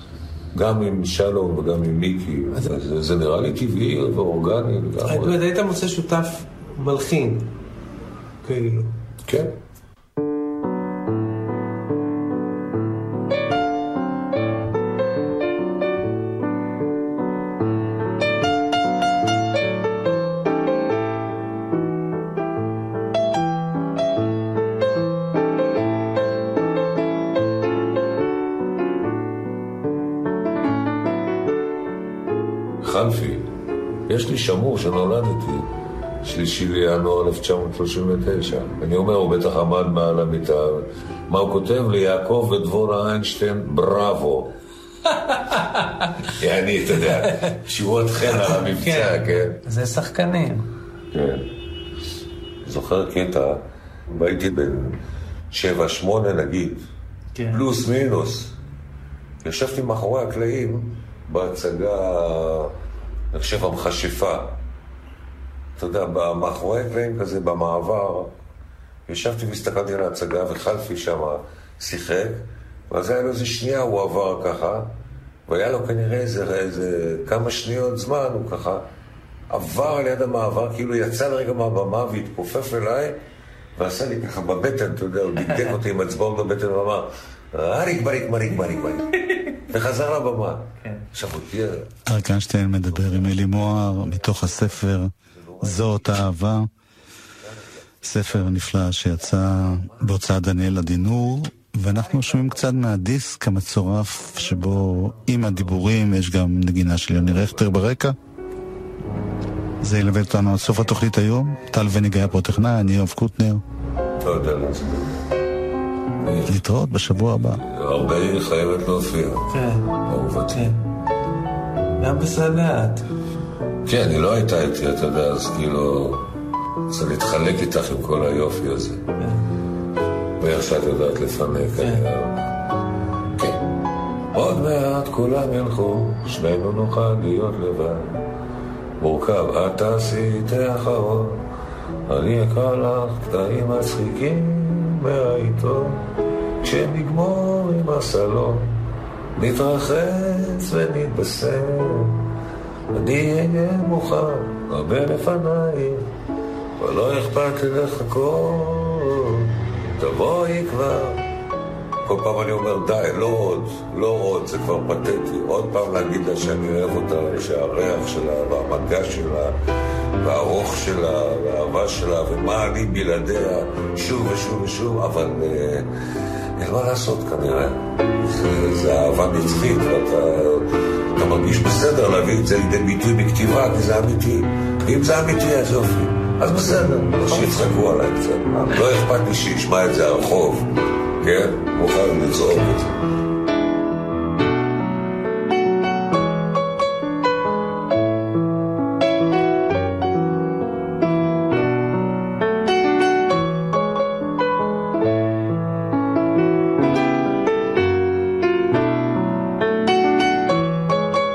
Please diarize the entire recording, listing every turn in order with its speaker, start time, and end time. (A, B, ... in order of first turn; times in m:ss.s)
0:00.6-0:05.4 A
0:05.0-0:07.5 B
0:08.4-0:08.9 B
0:09.3-0:09.6 A
0:32.8-0:33.5 A
0:34.1-0:35.7 A
0:36.2-0:44.5 A
0:45.3-0:46.1 B
0:46.3-0:49.6 A
0:48.3-0:50.7 B
0:51.1-0:51.5 A
0:52.6-0:55.0 A
0:55.5-0:56.9 A
0:57.4-0:57.6 B
0:57.5-0:58.5 A
0:59.4-1:02.7 A
1:03.3-1:04.6 A
1:05.8-1:08.3 A
1:09.1-1:14.9 A
1:15.5-1:18.9 A
1:19.5-1:23.2 A
1:23.8-1:31.9 A
1:32.1-1:36.7 C
1:32.9-1:36.0 A
1:38.0-1:48.2 C
1:39.6-1:39.9 A
1:49.8-1:53.6 C
1:54.2-1:55.2 A
1:56.2-1:56.6 A
1:56.5-1:57.6 C
1:57.6-2:00.8 A
1:59.5-1:59.9 B
2:00.5-2:00.8 B
2:02.0-2:03.1 B
2:03.8-2:06.4 A
2:06.9-2:09.0 A
2:09.2-2:09.5 B
2:10.4-2:12.4 A
2:11.8-2:12.1 B
2:13.4-2:13.6 A
2:14.3-2:18.2 A
2:19.0-2:21.4 A
2:22.1-2:26.0 A
2:26.6-2:28.8 A
2:29.4-2:32.3 A
2:32.9-2:36.1 A
2:36.8-2:41.2 A
2:42.0-2:49.6 A
2:50.2-2:55.9 A
2:56.6-3:10.7 A
3:07.3-3:07.6 B
3:11.2-3:13.0 A